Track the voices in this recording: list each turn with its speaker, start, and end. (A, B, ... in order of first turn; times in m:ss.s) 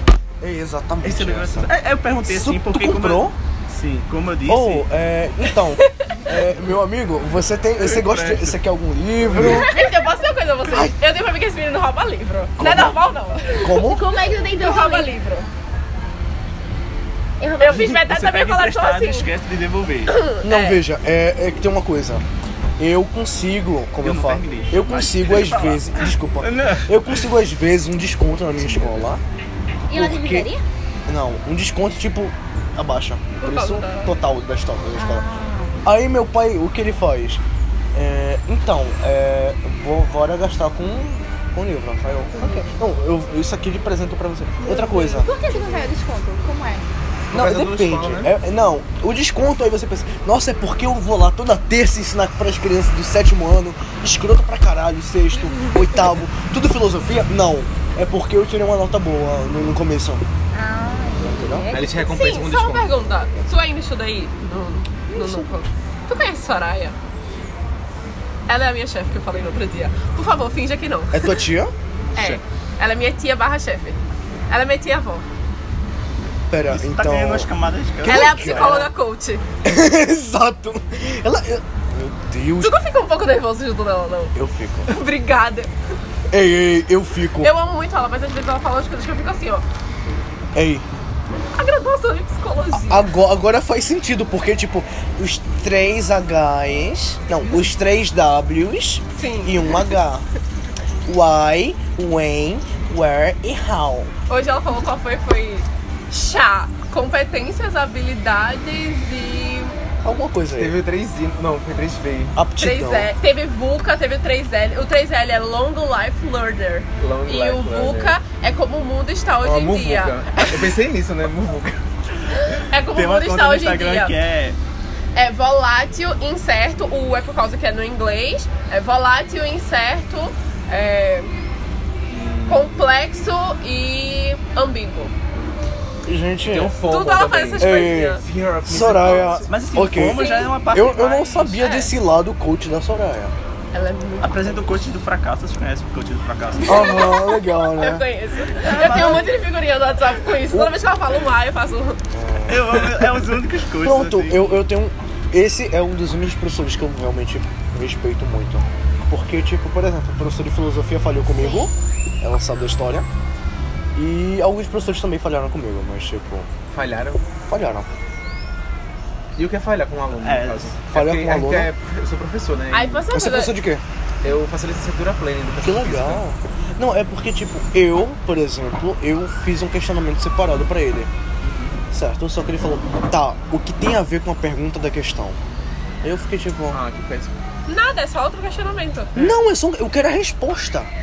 0:00.4-0:03.4 A
0:01.0-0:04.9 B
0:04.5-0:09.8 A
0:07.8-0:08.6 B
0:09.4-0:15.5 C
0:09.5-0:09.9 D
0:10.7-0:11.0 A
0:12.6-0:13.0 A
0:13.6-0:14.1 A
0:13.7-0:15.2 D
0:17.4-0:18.0 D
0:17.6-0:19.3 C
0:17.7-0:20.2 B
0:20.1-0:20.8 C
0:20.4-0:22.2 A
0:22.8-0:29.2 A
0:24.0-0:27.2 B
0:29.9-0:30.6 D
0:29.9-0:30.5 A
0:31.1-0:35.3 A
0:33.4-0:34.1 C
0:35.0-0:35.8 D
0:35.8-0:37.4 A
0:37.9-0:45.3 A
0:44.6-0:46.9 D
0:44.7-0:45.8 C
0:47.3-0:48.3 E
0:47.3-1:00.2 A
1:00.5-1:02.0 D
1:01.2-1:01.8 A
1:01.7-1:03.1 E
1:01.9-1:07.0 C
1:05.1-1:05.5 A
1:08.5-1:11.4 C
1:11.1-1:11.7 A
1:12.2-1:14.0 C
1:12.2-1:12.4 E
1:14.5-1:15.2 C
1:16.5-1:17.5 A
1:16.6-1:18.7 B
1:18.0-1:18.9 A
1:18.1-1:19.4 C
1:19.6-1:22.8 A
1:22.6-1:24.3 C
1:24.4-1:24.9 A
1:24.9-1:25.7 C
1:26.3-1:27.5 A
1:27.4-1:29.6 C
1:30.5-1:30.9 A
1:31.6-1:33.1 C
1:32.7-1:40.2 A
1:39.2-1:39.9 C
1:41.1-1:44.1 A
1:44.3-1:49.8 C
1:50.0-1:50.8 A
1:50.5-1:52.4 E
1:52.4-1:53.1 A
1:52.6-2:00.5 C
1:57.0-1:58.2 E
1:59.4-2:01.8 E
2:02.6-2:04.1 C
2:02.9-2:04.6 B
2:05.2-2:11.3 C
2:12.1-2:12.8 E
2:12.5-2:15.1 C
2:16.0-2:16.8 A
2:16.5-2:19.6 E
2:16.8-2:18.2 C
2:17.6-2:23.3 A
2:19.5-2:21.7 B
2:20.2-2:20.4 C
2:21.6-2:21.9 C
2:23.7-2:24.7 C
2:24.2-2:27.1 B
2:26.6-2:32.0 C
2:26.6-2:28.1 A
2:28.6-2:29.3 B
2:28.8-2:29.2 A
2:32.1-2:33.1 A
2:32.5-2:34.6 B
2:33.8-2:43.1 A
2:41.3-2:41.7 D
2:44.0-2:46.5 A
2:46.7-2:47.3 E
2:47.5-2:47.9 A
2:49.4-2:53.1 E
2:50.2-2:50.8 B
2:50.9-2:51.7 A
2:52.7-2:53.6 C
2:53.1-2:53.8 A
2:54.2-2:56.2 E
2:55.6-3:01.1 A
3:01.4-3:01.8 E
3:01.9-3:05.4 A
3:06.0-3:06.8 A
3:06.7-3:07.3 E
3:07.7-3:09.1 C
3:09.2-3:10.9 A